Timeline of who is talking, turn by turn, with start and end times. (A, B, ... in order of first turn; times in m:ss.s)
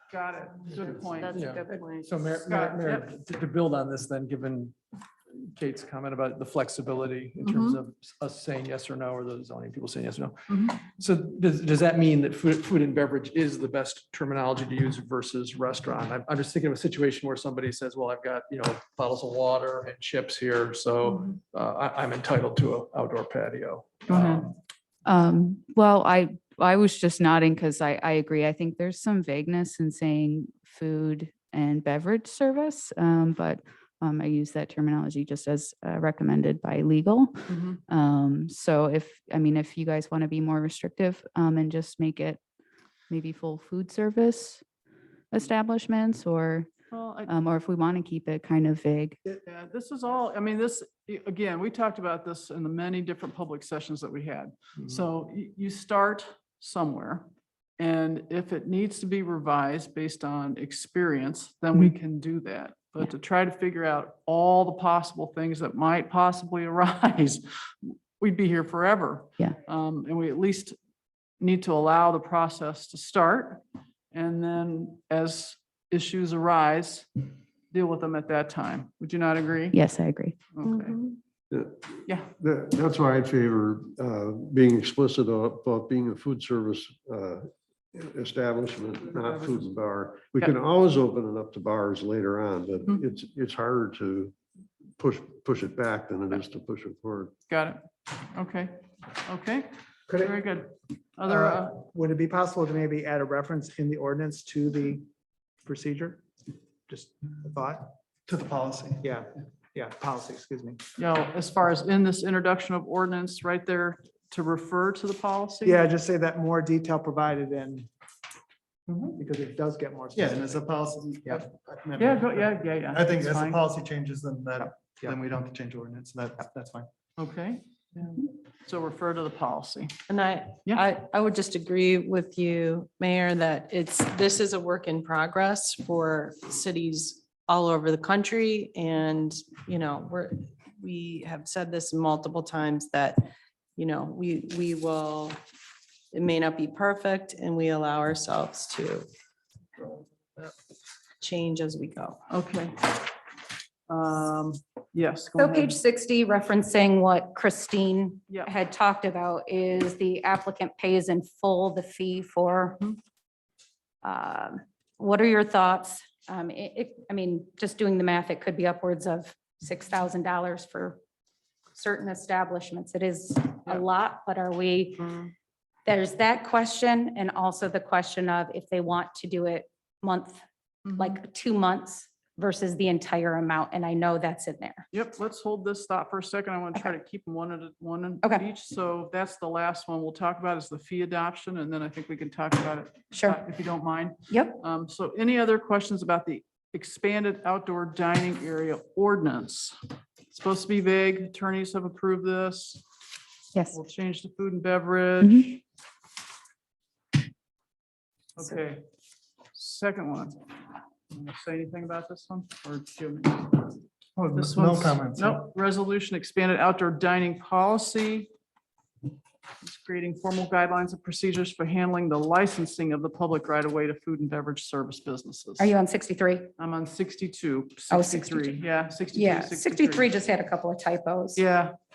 0:00.1-0:01.4 A
0:01.3-0:04.8 B
0:01.4-0:02.1 C
0:02.5-0:03.1 A
0:05.6-0:24.5 B
0:07.4-0:07.8 A
0:10.5-0:10.8 A
0:25.0-0:42.4 D
0:37.5-0:37.8 A
0:43.1-0:44.6 D
0:45.3-0:46.7 D
0:46.9-0:47.3 A
0:47.3-0:49.2 D
0:49.5-0:57.3 A
0:57.8-1:10.8 A
1:11.4-1:19.8 A
1:19.7-1:20.4 D
1:20.5-1:21.0 A
1:20.6-1:21.2 C
1:21.5-1:34.4 E
1:29.3-1:29.6 A
1:35.0-1:37.3 E
1:37.5-1:41.8 A
1:40.1-1:40.4 F
1:41.2-1:45.0 F
1:45.6-1:46.3 F
1:46.9-1:47.9 F
1:48.3-1:49.0 G
1:49.0-1:50.8 F
1:51.0-1:55.8 A
1:55.6-1:57.9 F
1:59.2-2:00.6 F
2:00.2-2:06.9 G
2:02.0-2:03.6 A
2:04.6-2:05.2 F
2:07.2-2:10.0 A
2:10.1-2:25.4 C
2:26.1-2:29.1 C
2:31.2-2:32.2 C
2:32.3-2:33.0 A
2:33.9-2:35.8 A
2:35.4-2:42.9 H
2:44.0-2:51.0 H
2:51.7-2:55.2 H
2:55.9-3:00.4 H
3:00.9-3:01.2 A
3:01.0-3:04.9 H
3:04.9-3:19.8 A
3:13.1-3:13.4 H
3:14.3-3:14.6 H
3:20.3-3:22.8 A
3:23.7-3:25.6 A
3:25.2-3:25.6 D
3:28.4-3:28.8 A
3:29.6-3:30.4 A
3:31.1-3:33.7 A
3:34.2-3:35.4 G
3:34.3-3:38.3 A
3:39.6-3:45.7 A
3:45.6-3:46.5 H
3:46.6-3:50.1 A
3:47.9-3:48.6 H
3:49.1-3:51.4 H
3:51.4-3:51.7 A